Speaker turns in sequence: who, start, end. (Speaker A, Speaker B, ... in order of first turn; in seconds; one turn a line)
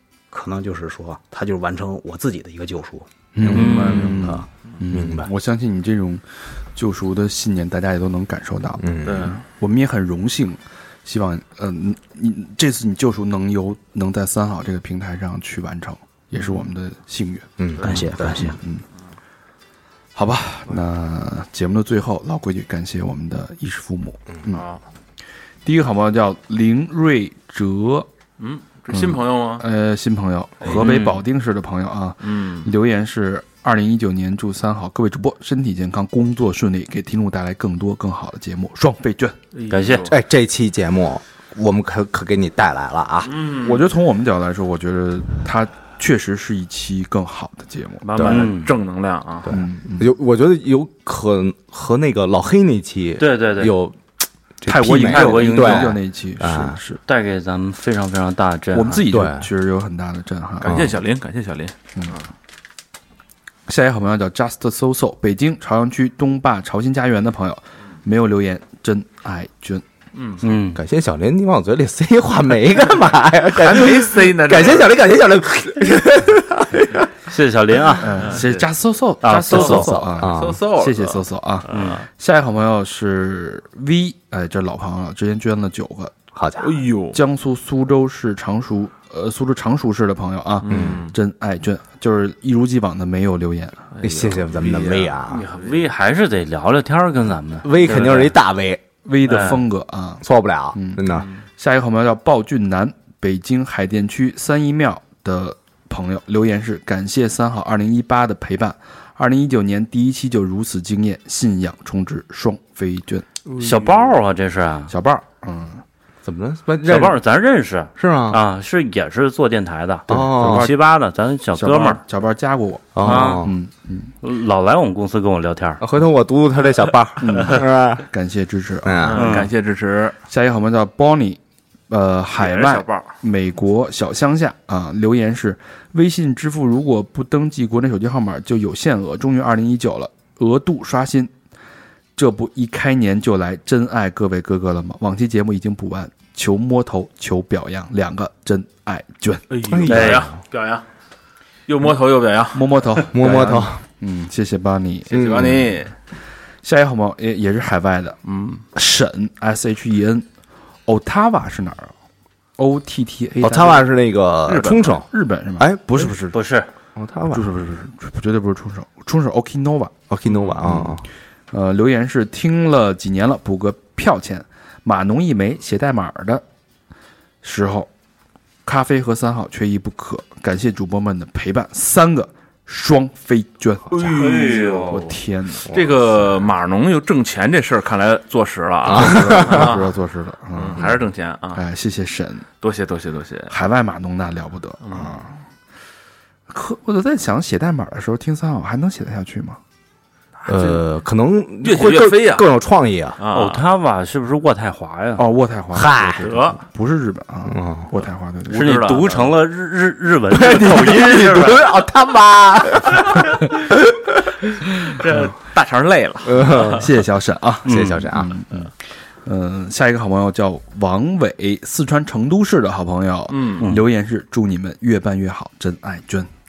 Speaker A: 0.3-4.5
Speaker B: 3.3-18.8
Speaker C: 3.4-4.3
Speaker D: 3.5-4.3
Speaker E: 3.6-4.1
Speaker C: 4.9-5.3
Speaker C: 8.8-9.4
Speaker D: 9.0-9.4
Speaker D: 16.3-16.6
Speaker C: 17.6-18.4
Speaker D: 17.8-18.1
Speaker A: 17.8-18.6
Speaker B: 20.1-24.6
Speaker D: 24.5-24.8
Speaker B: 25.6-28.1
Speaker D: 28.4-29.6
Speaker B: 28.9-39.4
Speaker E: 30.7-31.2
Speaker D: 32.2-32.7
Speaker D: 39.5-40.1
Speaker E: 39.7-40.1
Speaker C: 40.0-43.4
Speaker D: 43.3-43.8
Speaker B: 43.6-48.0
Speaker D: 48.0-49.5
Speaker C: 48.1-48.5
Speaker E: 48.2-48.7
Speaker C: 49.4-54.0
Speaker B: 49.5-50.1
Speaker E: 53.2-53.7
Speaker C: 54.6-56.8
Speaker B: 54.6-57.0
Speaker E: 55.0-56.0
Speaker E: 57.1-59.0
Speaker B: 58.7-60.9
Speaker C: 59.1-59.5
Speaker C: 60.6-61.0
Speaker D: 60.6-62.3
Speaker B: 63.7-69.8
Speaker D: 70.1-70.4
Speaker E: 70.4-70.8
Speaker C: 70.7-77.1
Speaker D: 73.5-74.9
Speaker E: 77.2-78.4
Speaker B: 78.0-86.1
Speaker D: 78.2-78.7
Speaker E: 79.2-80.0
Speaker D: 79.5-82.0
Speaker A: 79.5-80.1
Speaker C: 80.2-80.6
Speaker E: 81.7-82.0
Speaker C: 86.3-86.7
Speaker D: 86.6-87.2
Speaker B: 87.1-93.9
Speaker D: 90.6-91.1
Speaker C: 90.7-91.0
Speaker D: 93.9-95.8
Speaker C: 94.0-95.5
Speaker E: 95.3-98.3
Speaker C: 97.6-98.8
Speaker B: 99.0-101.0
Speaker E: 99.2-99.6
Speaker C: 100.2-101.3
Speaker D: 101.1-101.4
Speaker B: 101.6-113.2
Speaker D: 113.5-114.1
Speaker E: 113.6-114.9
Speaker B: 114.9-115.8
Speaker C: 116.2-117.2
Speaker E: 116.8-122.0
Speaker C: 118.0-118.4
Speaker C: 120.1-120.7
Speaker B: 120.1-120.8
Speaker B: 121.5-124.1
Speaker C: 122.9-123.5
Speaker E: 123.0-123.5
Speaker E: 124.2-125.8
Speaker C: 125.8-128.1
Speaker B: 127.2-129.2
Speaker E: 127.3-127.6
Speaker C: 128.8-129.4
Speaker D: 129.1-130.1
Speaker E: 129.1-129.5
Speaker B: 130.3-131.4
Speaker B: 131.9-141.3
Speaker D: 132.4-133.1
Speaker B: 142.2-149.8
Speaker D: 149.5-150.8
Speaker C: 149.7-150.3
Speaker E: 149.8-150.3
Speaker D: 151.7-152.8
Speaker B: 152.5-155.1
Speaker C: 153.1-153.8
Speaker D: 155.1-155.9
Speaker C: 155.1-155.8
Speaker B: 156.6-158.2
Speaker D: 158.2-158.6
Speaker B: 158.7-160.2
Speaker B: 160.9-161.9
Speaker B: 162.6-163.8
Speaker C: 163.4-165.1
Speaker D: 164.5-165.0
Speaker B: 164.5-166.4
Speaker C: 165.6-166.1
Speaker E: 166.3-166.7
Speaker C: 166.9-167.5
Speaker B: 167.3-169.9
Speaker C: 170.1-171.0
Speaker D: 170.3-170.6
Speaker B: 170.6-171.0
Speaker B: 171.5-176.4
Speaker B: 177.4-177.9
Speaker B: 178.6-185.8
Speaker C: 183.9-184.5
Speaker D: 184.0-185.0
Speaker E: 184.1-185.1
Speaker D: 185.6-189.9
Speaker C: 188.8-189.7
Speaker B: 188.9-191.0
Speaker D: 190.6-191.6
Speaker B: 191.5-192.5
Speaker D: 192.6-193.5
Speaker B: 193.5-195.3
Speaker D: 194.8-195.2
Speaker B: 196.5-199.6
Speaker D: 200.4-200.8
Speaker C: 200.4-203.2
Speaker D: 201.6-202.5
Speaker D: 203.2-203.6
Speaker E: 203.3-205.2
Speaker B: 205.2-209.0
Speaker C: 205.7-206.3
Speaker D: 206.2-206.6
Speaker C: 207.5-207.9
Speaker D: 208.5-209.4
Speaker E: 208.5-211.7
Speaker C: 210.3-213.3
Speaker D: 212.9-213.4
Speaker D: 214.7-216.8
Speaker C: 216.2-216.9
Speaker B: 216.6-218.7
Speaker C: 217.6-218.3
Speaker E: 217.7-218.0
Speaker B: 219.2-226.3
Speaker D: 223.3-223.7
Speaker E: 223.6-223.8